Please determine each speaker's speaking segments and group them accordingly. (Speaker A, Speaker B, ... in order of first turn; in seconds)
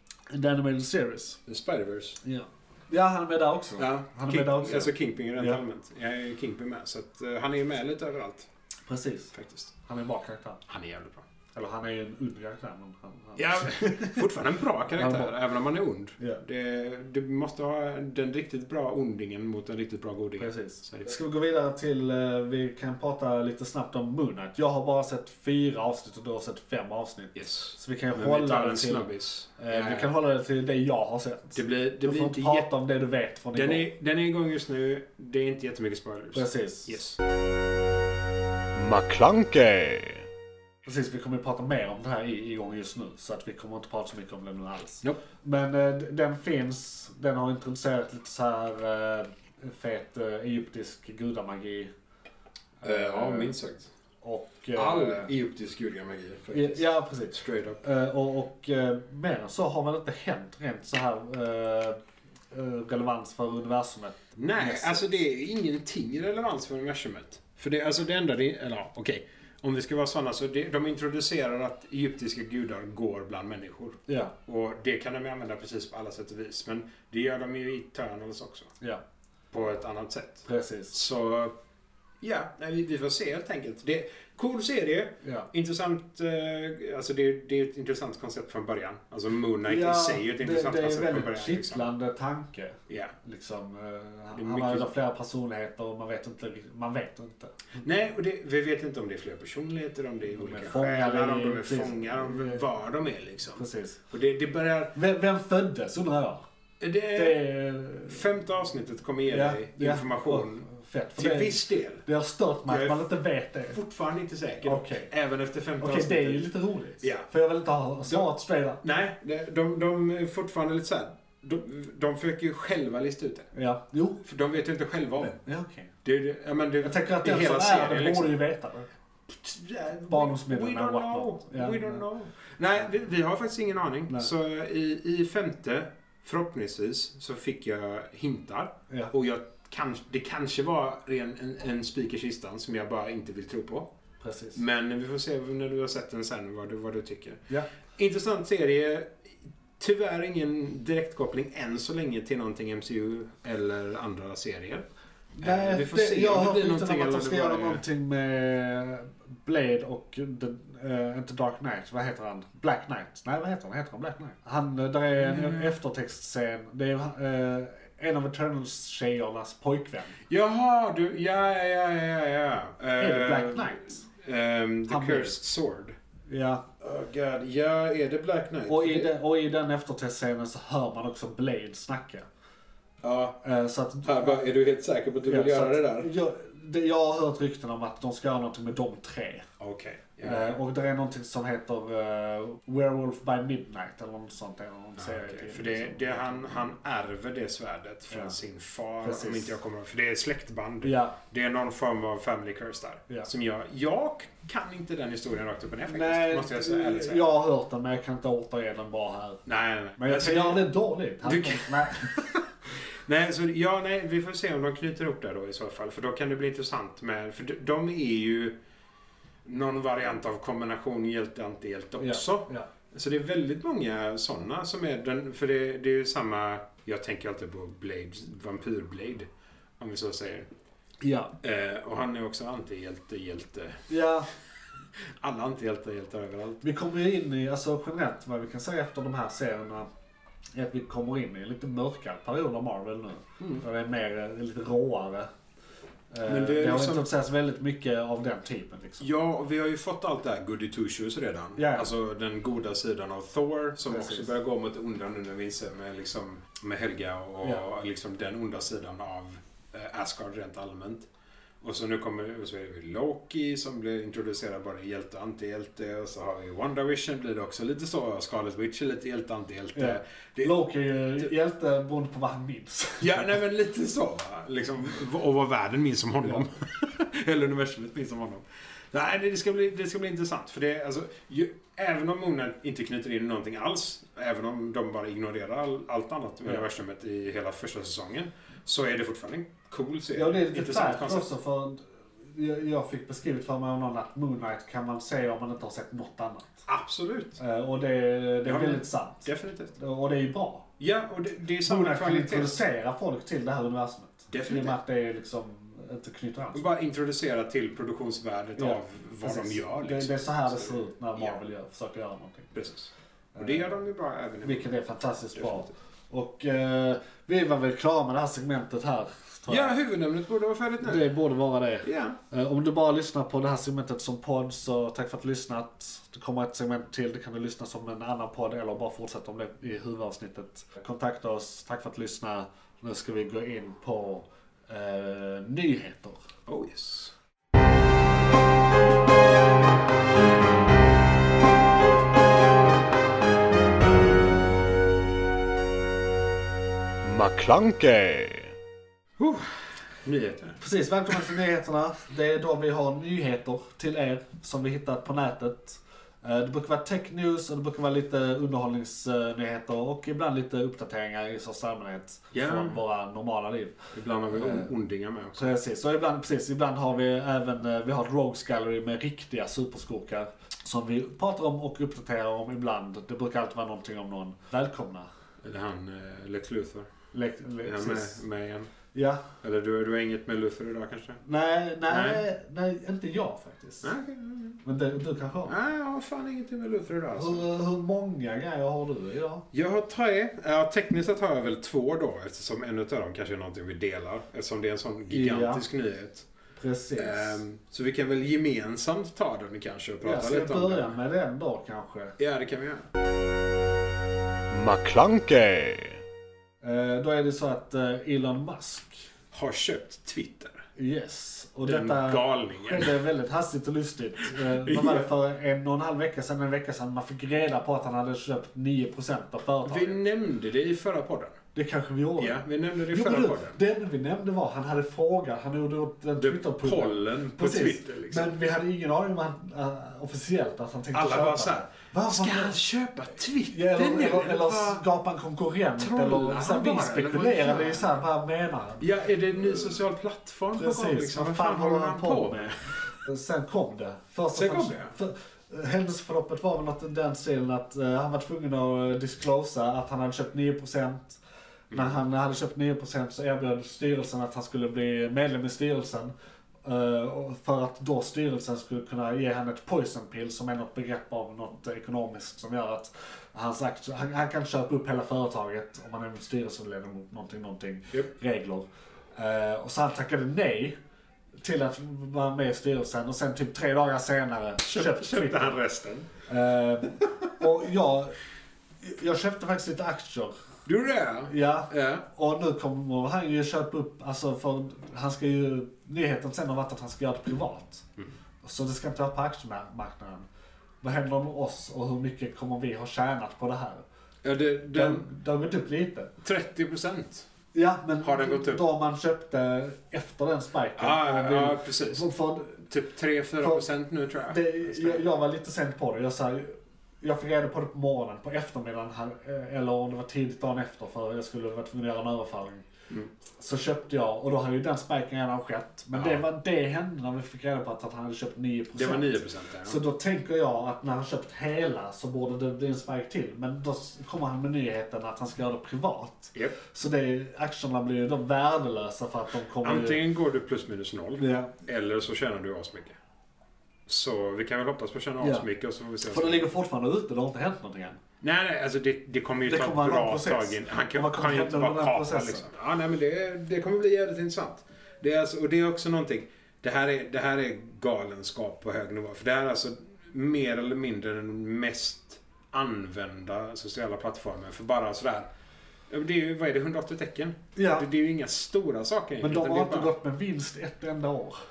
Speaker A: 0.3-1.4, 2.2-5.6, 8.9-9.3, 9.8-10.6, 11.5-14.3, 14.9-15.3, 20.4-33.9, 36.3-37.0, 40.8-51.9, 52.8-53.5, 54.2-55.3, 56.5-62.0, 62.5-65.2, 74.1-74.3, 80.5-81.0, 85.2-85.5, 89.6-97.7, 100.3-102.6, 103.5-104.0, 104.9-106.4, 107.1-108.2, 109.3-113.8, 114.6-115.1, 115.8-118.8, 123.5-124.2, 125.4-125.9, 126.8-128.9, 130.1-132.0, 144.2-144.6, 155.4-170.2, 173.0-174.1, 174.9-175.4, 176.3-176.6, 178.7-182.2, 183.4-184.4, 185.2-189.4, 190.2-196.6, 198.1-198.3, 199.0-199.6, 200.8-201.2, 205.8-209.4, 210.0-212.4, 222.0-222.7, 231.0-231.3, 233.9-234.3, 236.6-239.9, 240.5-245.3, 246.1-249.1, 251.6-251.9, 253.9-254.3, 269.7-273.3, 290.1-296.6, 297.4-300.7, 301.6-306.6, 308.6-312.5, 313.3-313.8, 314.4-319.8, 320.8-336.2, 350.6-364.7, 365.4-375.1, 377.1-378.2, 378.9-379.2, 381.2-383.9, 384.6-385.5, 387.1-389.4, 395.1-395.6, 396.6-397.4, 400.0-402.2, 406.6-409.1, 410.8-420.0, 421.5-432.6, 433.4-438.8, 440.6-451.2, 451.7-456.1, 456.6-470.8, 471.4-475.6, 476.2-478.1, 478.8-480.4, 481.3-487.9, 488.4-490.3, 490.8-493.8, 494.7-496.1, 497.5-502.7, 503.4-503.7, 504.3-512.6, 513.4-530.0, 531.2-531.5, 535.2-535.5, 536.0-538.0, 539.5-542.5, 557.5-557.9, 559.2-561.4
Speaker B: 1.5-2.2, 3.8-8.5, 9.3-9.7, 10.7-11.2, 13.3-21.2, 27.3-30.1, 31.5-32.7, 33.5-37.2, 52.8-53.9, 54.7-57.8, 64.4-78.7, 79.5-81.5, 82.2-91.9, 92.9-93.1, 94.3-94.9, 97.8-104.9, 106.8-107.4, 108.0-112.0, 112.7-113.1, 113.7-116.4, 117.0-117.3, 118.8-123.5, 124.2-125.4, 126.0-128.4, 129.3-143.9, 144.5-149.3, 149.8-154.8, 155.4-157.8, 165.2-165.7, 170.3-176.0, 176.8-179.1, 183.0-183.4, 184.0-186.1, 189.6-190.5, 195.0-207.3, 209.4-210.7, 211.2-212.1, 213.0-218.6, 219.4-229.3, 229.8-230.5, 231.4-233.9, 234.9-236.6, 246.2-247.1, 249.0-261.1, 261.6-270.6, 273.0-291.3, 296.7-297.4, 298.4-299.7, 300.8-302.6, 304.3-304.8, 306.5-311.3, 312.5-314.7, 315.3-315.7, 319.5-321.1, 321.8-322.2, 336.4-337.1, 349.2-350.6, 362.3-362.8, 363.9-365.5, 375.4-376.9, 377.6-378.7, 379.4-381.2, 381.9-382.2, 383.8-384.6, 385.4-387.4, 389.5-396.3, 396.9-400.9, 402.2-402.9, 409.3-410.6, 411.6-413.0, 414.3-415.1, 419.6-421.4, 422.2-423.6, 426.2-428.4, 430.9-434.8, 435.8-437.9, 438.8-442.6, 444.3-444.9, 474.6-476.1, 480.6-482.1, 494.2-495.1, 496.2-497.3, 498.0-498.6, 500.8-502.1, 502.7-505.0, 515.9-516.2, 518.7-519.8, 529.6-533.0, 533.9-536.5, 538.2-555.3, 555.9-559.9
Speaker C: 38.7-40.2, 347.0-348.5, 404.5-406.0